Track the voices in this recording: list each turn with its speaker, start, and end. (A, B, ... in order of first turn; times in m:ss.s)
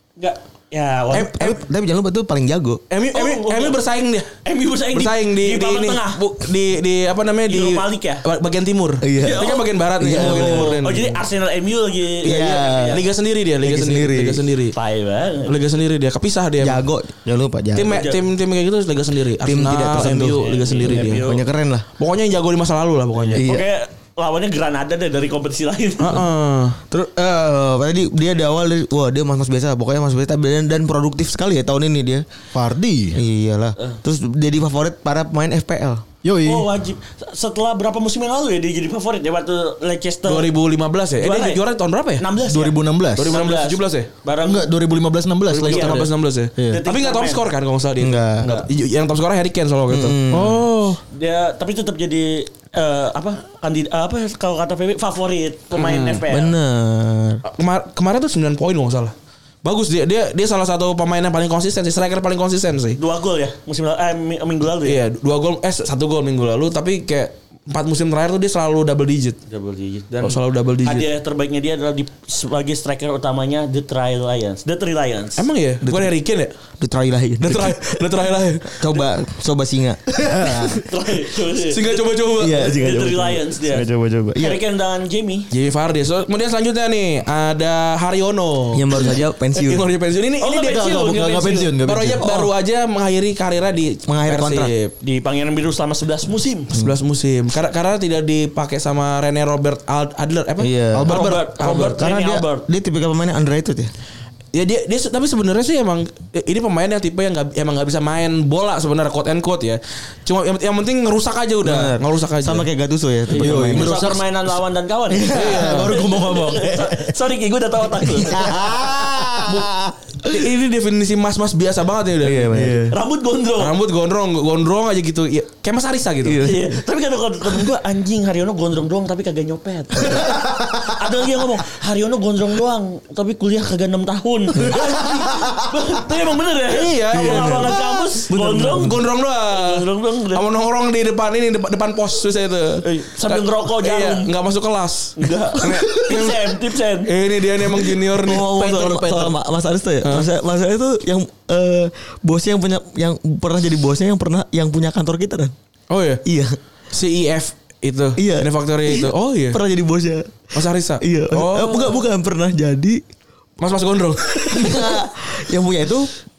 0:00.2-0:01.5 A
0:01.1-0:01.6 B
0:01.3-0:02.8 C
0:02.9-0:04.3 B
0:03.1-0:03.8 A
0:04.4-0:06.2 A
0:04.9-0:11.2 B
0:07.5-0:08.2 A
0:09.0-0:10.8 C
0:09.2-0:13.0 A
0:12.2-0:13.0 C
0:12.9-0:14.8 B
0:13.6-0:14.5 C
0:14.7-0:15.6 A
0:15.5-0:16.8 B
0:16.6-0:18.1 C
0:17.7-0:21.3 B
0:17.9-0:18.2 A
0:19.4-0:21.8 C
0:20.3-0:21.4 A
0:22.0-0:23.5 B
0:23.3-0:26.2 A
0:23.3-0:23.6 C
0:26.0-0:26.8 B
0:26.9-0:32.2 C
0:32.5-0:33.2 D
0:33.1-0:36.0 C
0:36.2-0:36.7 D
0:36.4-0:40.5 A
0:40.3-0:42.2 B
0:41.2-0:41.6 A
0:42.2-0:44.7 A
0:42.4-0:43.3 D
0:43.2-0:44.1 B
0:44.4-0:46.8 D
0:45.5-0:51.0 B
0:45.6-0:46.1 A
0:46.7-0:47.5 A
0:48.0-0:48.5 C
0:49.9-0:50.7 C
0:51.1-0:56.6 A
0:55.7-0:56.2 B
0:56.3-0:57.4 C
0:57.5-1:03.0 B
1:03.0-1:05.0 A
1:04.8-1:09.4 B
1:09.5-1:15.4 A
1:10.2-1:11.1 B
1:15.4-1:16.5 B
1:15.8-1:16.1 C
1:16.8-1:18.0 C
1:17.4-1:19.0 B
1:18.7-1:20.7 C
1:20.1-1:20.8 D
1:20.8-1:22.0 A
1:21.5-1:22.8 B
1:22.4-1:24.6 C
1:22.6-1:25.5 A
1:25.5-1:31.0 B
1:28.7-1:29.9 C
1:30.4-1:31.7 A
1:30.6-1:32.3 D
1:31.8-1:34.9 B
1:32.2-1:32.5 C
1:34.1-1:34.7 C
1:35.0-1:36.7 A
1:36.7-1:42.0 B
1:40.6-1:43.9 C
1:40.9-1:41.5 D
1:41.1-1:42.6 A
1:44.5-1:52.7 B
1:51.6-1:54.0 C
1:53.3-1:58.5 A
1:53.3-1:54.2 D
1:55.1-1:57.1 D
1:55.3-1:56.0 B
1:58.2-1:59.7 D
1:58.2-1:59.9 C
2:00.2-2:02.6 B
2:02.2-2:02.9 C
2:02.5-2:02.9 D
2:02.9-2:03.8 A
2:03.6-2:06.4 B
2:06.2-2:06.8 C
2:06.4-2:20.4 A
2:10.2-2:11.0 D
2:15.0-2:15.5 D
2:16.7-2:17.8 B
2:17.1-2:19.0 C
2:18.7-2:29.3 B
2:22.8-2:24.3 A
2:25.2-2:27.1 A
2:27.8-2:35.5 C
2:28.6-2:29.3 A
2:30.0-2:30.3 B
2:35.9-2:36.2 B
2:36.2-2:36.6 C
2:36.9-2:39.6 B
2:38.2-2:40.4 C
2:40.5-2:42.0 B
2:41.0-2:43.0 C
2:43.6-2:45.0 B
2:44.4-2:46.1 C